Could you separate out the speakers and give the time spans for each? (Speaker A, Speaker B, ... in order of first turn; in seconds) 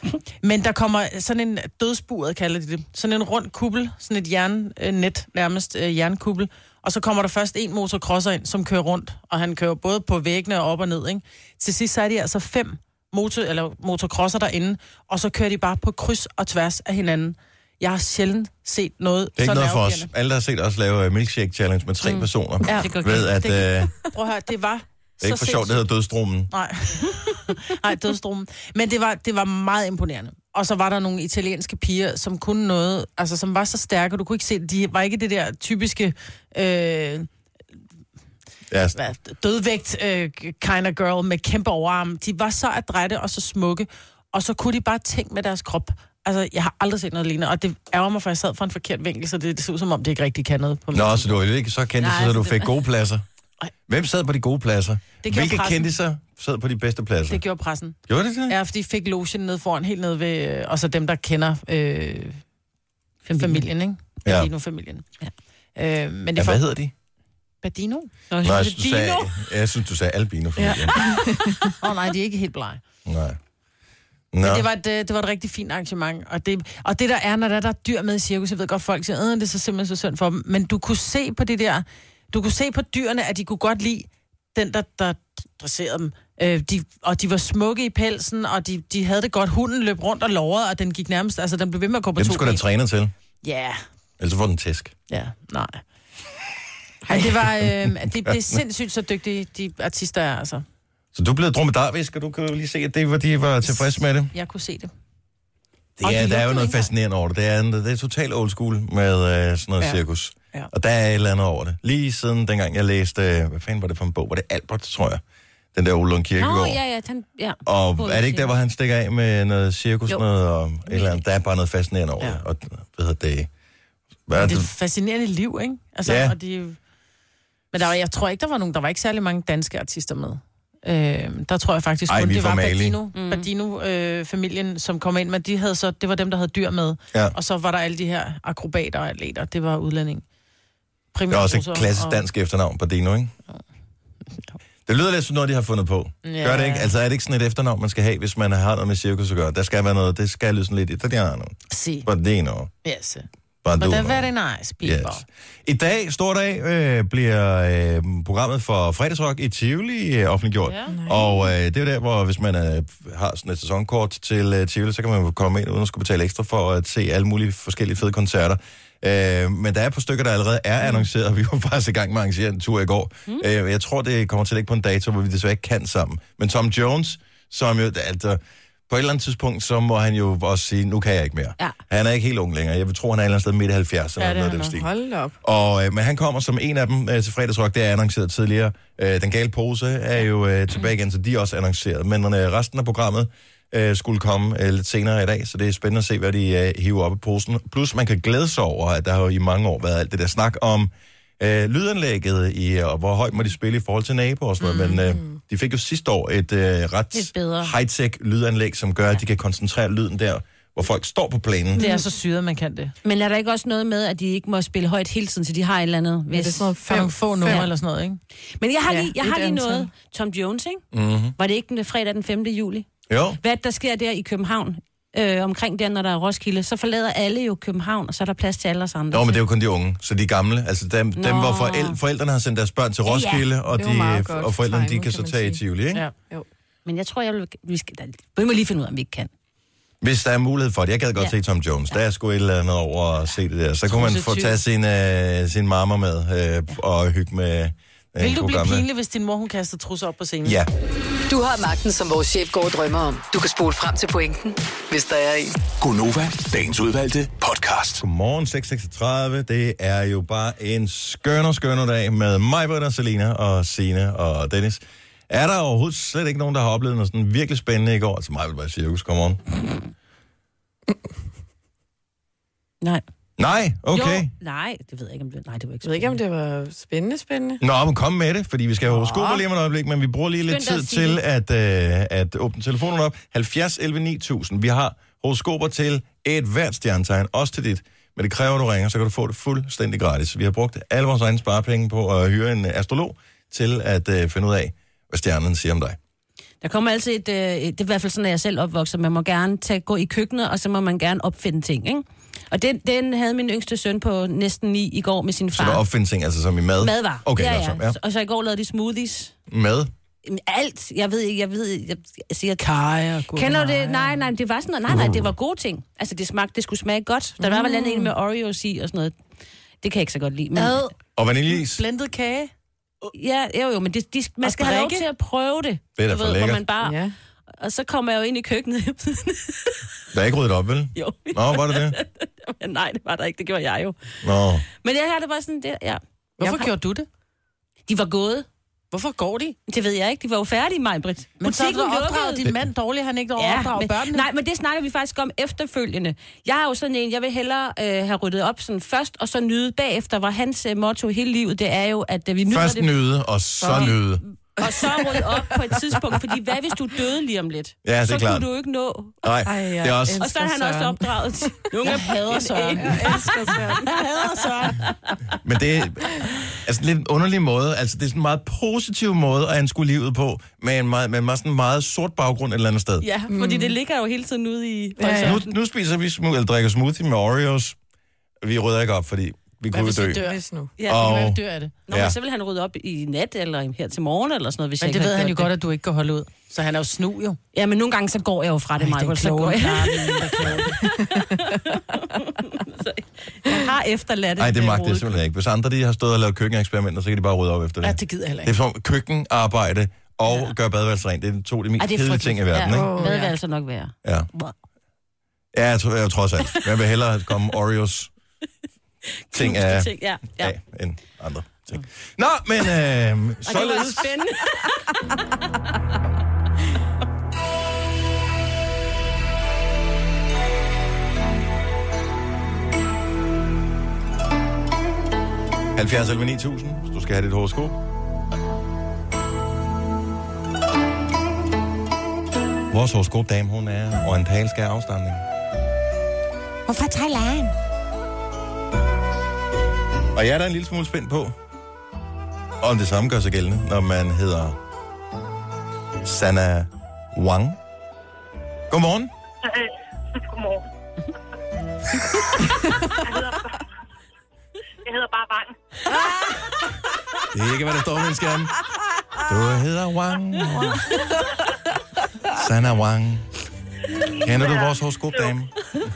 Speaker A: 0.4-20.1, 22.6-25.8, 26.5-37.3, 38.9-51.4, 55.2-55.9, 57.3-62.4, 63.2-65.0, 65.8-66.6, 67.6-68.1, 71.7-72.8, 74.4-92.6, 93.4-93.8, 95.1-95.8, 97.1-100.6, 103.6-104.9, 106.0-106.8, 124.3-126.8, 127.7-140.2, 141.1-142.2, 146.2-146.9, 151.7-152.1, 152.8-153.2, 153.8-155.2, 160.6-160.9, 184.2-184.7, 204.6-205.0, 211.8-212.9, 216.9-218.2, 243.9-244.6, 248.2-250.6, 312.6-314.2, 320.6-320.9, 321.5-322.5, 324.4-325.0, 336.4-337.1, 338.9-339.6, 341.4-344.2, 361.8-364.9, 379.7-381.7, 384.8-387.4, 388.8-390.8, 397.8-398.5, 402.6-403.3
Speaker B: 19.4-23.9, 25.2-26.5, 38.7-39.0, 50.9-53.2, 53.9-57.4, 58.1-58.5, 64.2-64.5, 66.3-66.9, 68.4-71.0, 73.0-73.4, 74.3-74.7, 92.2-93.1, 94.2-94.9, 97.2-98.6, 101.1-104.3, 106.0-115.2, 115.7-116.8, 117.6-123.5, 124.3-124.7, 126.0-126.3, 132.1-133.0, 141.3-143.3, 144.8-152.7, 153.6-154.3, 154.8-184.9, 185.4-211.8, 220.9-221.3, 223.1-223.4, 229.1-236.0, 240.0-248.8, 250.4-250.7, 258.0-269.4, 273.4-274.3, 277.6-296.0, 305.5-308.0, 309.5-309.9, 314.9-315.3, 321.1-321.8, 326.0-326.6, 330.1-332.0, 334.2-334.6, 352.4-354.2, 357.8-358.5, 359.2-360.3, 365.4-373.1, 375.2-377.8, 378.4-380.2, 380.8-382.1, 390.4-390.6, 394.4-402.9, 404.0-404.3, 405.5-408.1, 409.3-414.2, 425.7-427.8, 432.7-435.2, 440.1-441.3, 442.6-444.6, 446.0-447.6, 448.7-449.1, 457.3-458.5, 459.2-460.8, 462.3-463.3, 464.1-465.5
Speaker C: 52.0-52.7, 68.3-69.3, 116.4-118.5, 120.9-121.2, 133.1-133.5, 207.1-207.7, 213.0-216.7, 218.6-220.8, 221.4-222.9, 223.4-229.4, 231.2-232.0, 233.1-233.4, 236.8-239.3, 273.9-276.2, 280.5-281.2, 296.6-305.8, 306.8-309.3, 310.2-312.6, 313.3-319.1, 319.8-320.9, 323.1-327.0, 327.6-329.8, 330.9-334.1, 334.8-336.7, 337.9-338.5, 339.7-342.4, 343.4-352.9, 353.6-354.0, 354.6-359.2, 360.2-363.9, 373.0-375.5, 380.8-381.2, 381.9-385.5, 387.5-395.2, 401.8-404.5, 409.3-410.5, 413.4-415.2
Speaker D: 70.6-71.7, 160.9-161.5, 184.7-185.3, 216.3-217.7, 218.9-219.8, 233.7-235.6, 275.8-277.6, 317.6-318.0, 326.8-327.1, 353.6-353.9, 354.6-355.4, 359.4-361.3, 362.8-363.9, 373.3-373.7, 375.0-375.4, 380.1-380.7, 390.9-391.5, 402.7-403.3
Speaker E: 251.3-255.6, 436.7-437.4
Speaker F: 255.8-258.0
Speaker G: 449.4-450.6, 453.0-453.6, 454.8-455.5, 464.3-465.3